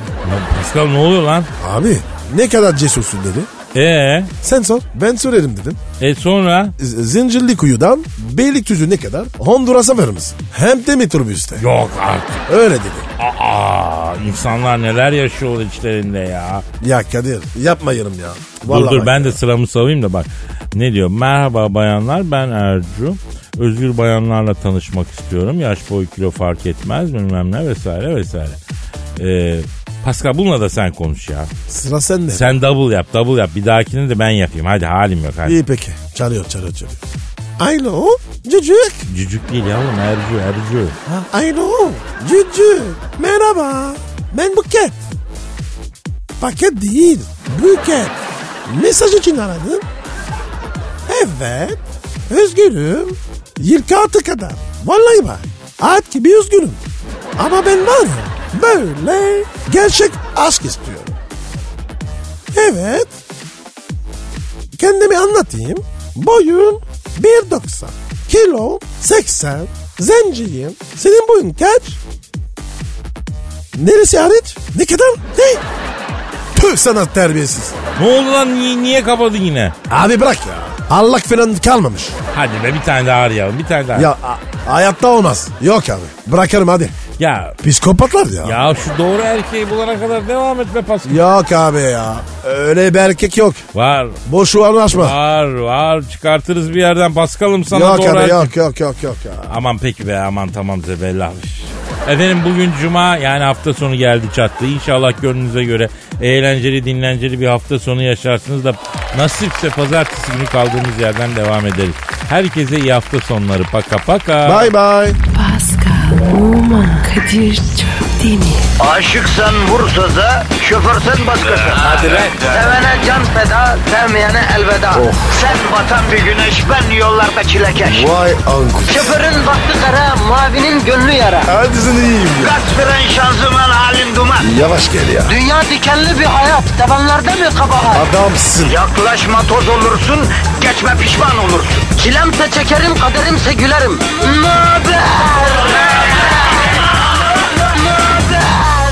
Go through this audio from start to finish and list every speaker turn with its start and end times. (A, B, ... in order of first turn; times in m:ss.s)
0:00.2-0:01.5 A
0:01.6-0:03.5 B
0:03.7-0:04.3 A
0:04.4-0:05.8 B
0:06.0-0:06.7 A
0:06.8-0:11.6 B
0:11.6-0:12.4 A
0:12.5-0:13.1 B
0:13.2-0:16.6 A
0:16.8-0:19.4 B
0:18.7-0:28.6 A
0:29.2-0:31.5 A
0:31.7-0:32.6 B
0:32.3-0:35.6 A
0:35.4-0:37.0 B
0:37.6-0:39.0 B
0:39.1-0:41.0 A
0:41.1-0:45.0 B
0:46.4-0:49.9 B
0:51.1-0:56.8 B
0:57.4-1:01.2 B
1:02.5-1:03.2 B
1:04.7-1:12.0 B
1:13.7-1:15.6 B
1:16.5-1:17.8 B
1:18.0-1:19.8 A
1:19.9-1:22.2 B
1:22.3-1:24.1 A
1:23.9-1:26.9 B
1:27.2-1:27.6 A
1:27.6-1:28.6 B
1:28.4-1:31.2 A
1:31.0-1:33.6 B
1:33.7-1:34.2 A
1:34.2-1:35.2 B
1:34.9-1:38.5 A
1:37.7-1:39.5 B
1:39.5-1:54.7 A
1:54.4-1:55.2 B
1:55.3-1:58.7 C
1:58.8-2:08.2 D
2:01.8-2:02.4 A
2:04.9-2:05.4 B
2:07.9-2:09.1 B
2:08.9-2:11.5 D
2:11.5-2:12.5 B
2:12.4-2:14.5 D
2:14.4-2:15.3 B
2:15.3-2:18.0 D
2:17.9-2:18.8 B
2:18.6-2:26.5 D
2:27.8-2:28.7 D